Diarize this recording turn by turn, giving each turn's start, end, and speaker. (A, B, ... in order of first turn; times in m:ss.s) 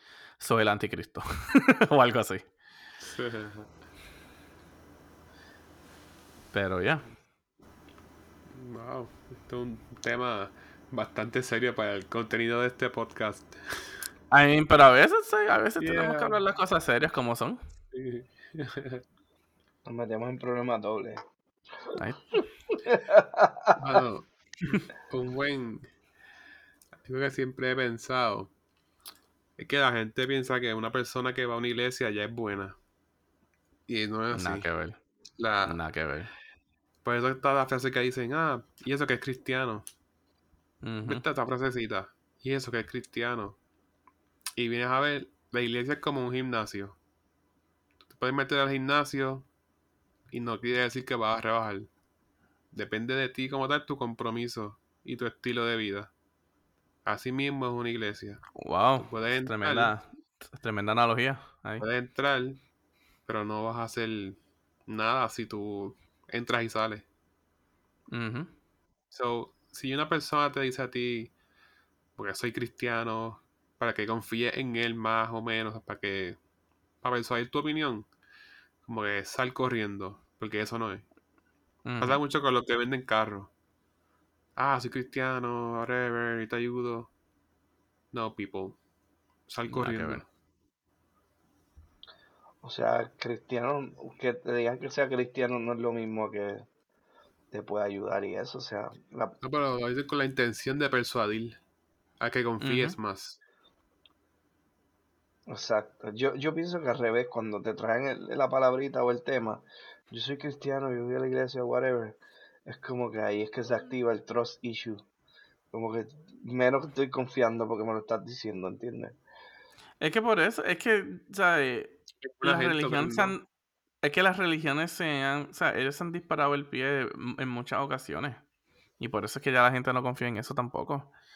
0:00.4-0:02.4 A
0:03.0-0:03.7 B
0:06.5-0:07.0 A
0:08.5-0:13.8 B
0:14.3-0:17.6 A
0:15.8-0:16.4 B
0:17.9-0:19.0 B
0:19.8-0:21.2 C
0:22.0-0:22.4 A
0:22.7-0:24.0 C
0:23.8-0:24.3 B
0:24.9-0:25.9 B
0:27.0-0:28.5 B
0:29.6-0:32.8 B
0:33.9-0:34.7 B
0:34.3-0:35.0 A
0:35.4-0:35.8 B
0:35.6-0:36.3 A
0:37.0-0:39.9 B
0:40.8-0:41.2 A
0:41.0-0:43.6 B
0:44.6-0:47.0 B
0:48.1-0:49.5 B
0:50.3-0:51.9 B
0:52.7-0:56.1 B
0:57.0-0:58.4 B
0:58.6-1:01.8 A
0:59.0-0:59.9 B
1:01.8-1:02.6 B
1:03.2-1:07.0 B
1:08.1-1:08.5 A
1:09.1-1:11.3 B
1:12.2-1:16.4 B
1:17.0-1:18.1 B
1:18.8-1:21.0 B
1:21.8-1:22.2 A
1:22.0-1:23.5 B
1:24.6-1:27.1 B
1:28.1-1:28.8 B
1:29.5-1:30.2 B
1:29.7-1:30.2 A
1:32.6-1:36.6 C
1:37.5-1:39.4 C
1:39.4-1:41.6 B
1:42.2-1:43.4 B
1:42.6-1:43.0 A
1:45.5-1:55.0 C
1:55.7-1:59.2 C
2:00.0-2:03.4 A
2:02.2-2:03.4 B
2:04.0-2:08.4 A
2:09.0-2:11.1 A